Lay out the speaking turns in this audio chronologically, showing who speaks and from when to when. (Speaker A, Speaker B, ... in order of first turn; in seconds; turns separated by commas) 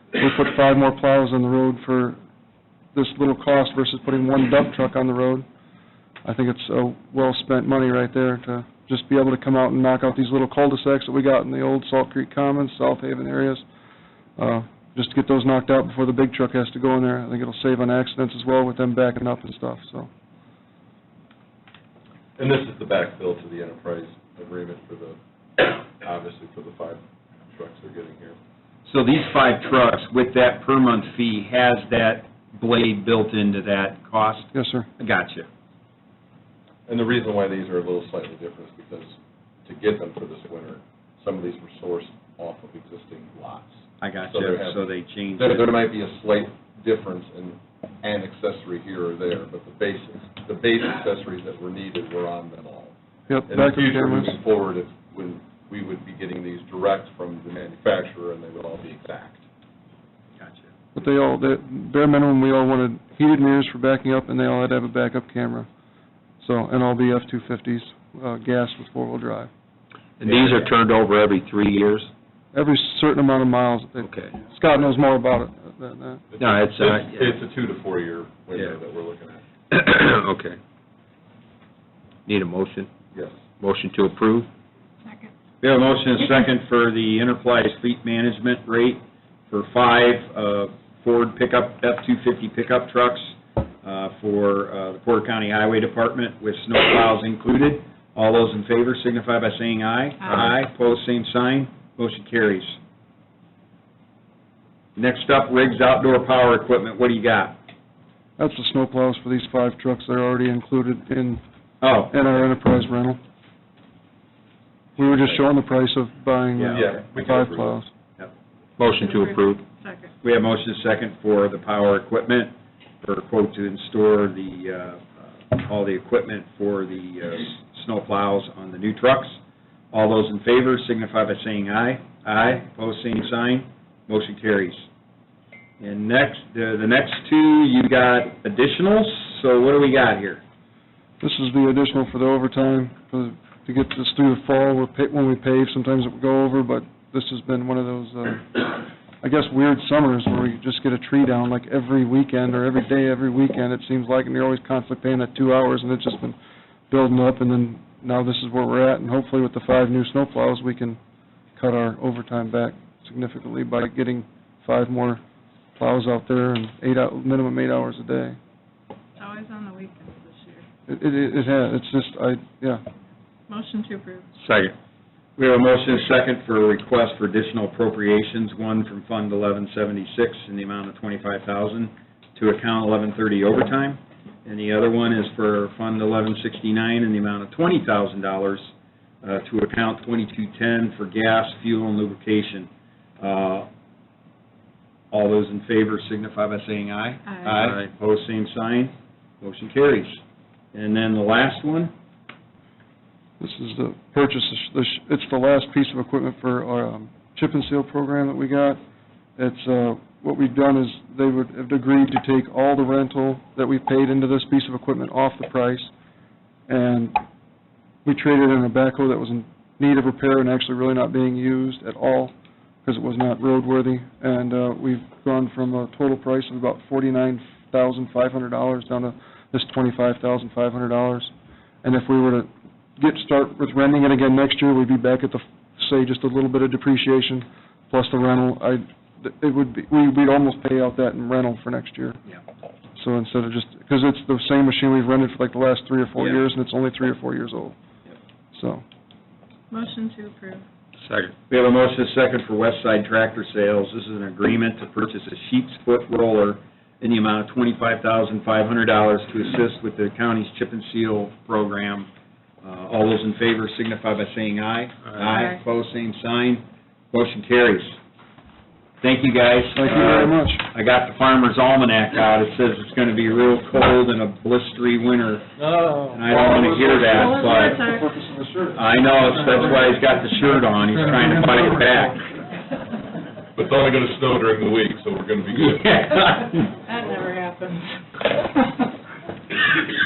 Speaker A: 0.2-2.2, Speaker A: 2.9-5.5, Speaker A: 6.2-13.7, Speaker A: 14.4-20.1, Speaker B: 22.4-28.4, Speaker C: 28.9-35.5, Speaker A: 34.5-34.9, Speaker B: 36.9-39.1, Speaker B: 39.7-43.7, Speaker C: 44.0-45.7, Speaker B: 44.3-44.8, Speaker B: 45.4-52.9, Speaker A: 53.3-54.4, Speaker B: 53.5-59.4, Speaker C: 60.4-60.7, Speaker A: 61.0-65.7, Speaker A: 66.4-69.5, Speaker D: 70.2-72.1, Speaker A: 72.5-76.2, Speaker D: 74.0-74.3, Speaker B: 76.3-79.4, Speaker D: 76.4-77.3, Speaker D: 79.7-80.6, Speaker D: 82.3-82.9, Speaker B: 83.1-83.5, Speaker D: 83.6-84.5, Speaker E: 85.1-85.3, Speaker C: 85.6-102.8, Speaker C: 105.0-107.6, Speaker A: 108.4-111.4, Speaker C: 111.8-112.1, Speaker A: 112.1-113.2, Speaker A: 115.0-117.9, Speaker C: 116.6-117.0, Speaker B: 116.8-117.7, Speaker D: 118.8-119.6, Speaker E: 119.0-120.1, Speaker C: 120.2-129.4, Speaker C: 129.9-134.9, Speaker C: 135.8-140.4, Speaker A: 141.2-148.7, Speaker A: 149.2-156.4, Speaker A: 156.9-161.0, Speaker A: 161.6-165.2, Speaker A: 165.8-168.4, Speaker E: 169.2-170.6, Speaker A: 170.9-172.8, Speaker E: 173.5-174.3, Speaker D: 174.4-174.8, Speaker C: 175.4-188.7, Speaker C: 189.2-192.7, Speaker C: 193.2-193.7, Speaker C: 195.1-200.2, Speaker E: 197.3-197.6, Speaker C: 200.7-201.9, Speaker A: 203.4-208.8, Speaker A: 209.4-215.9, Speaker A: 216.7-217.2, Speaker A: 218.1-222.3, Speaker A: 222.8-242.2, Speaker A: 243.0-247.8, Speaker A: 248.5-248.8, Speaker E: 249.7-250.7, Speaker D: 251.1-251.3, Speaker C: 251.5-262.1, Speaker C: 262.6-268.0, Speaker E: 265.3-265.6, Speaker C: 269.0-275.5, Speaker A: 269.8-270.6, Speaker A: 275.7-280.1, Speaker C: 276.1-277.8, Speaker E: 277.0-278.1, Speaker C: 278.8-282.2, Speaker A: 280.9-281.8, Speaker B: 283.6-285.9, Speaker C: 285.7-286.7, Speaker E: 286.9-288.0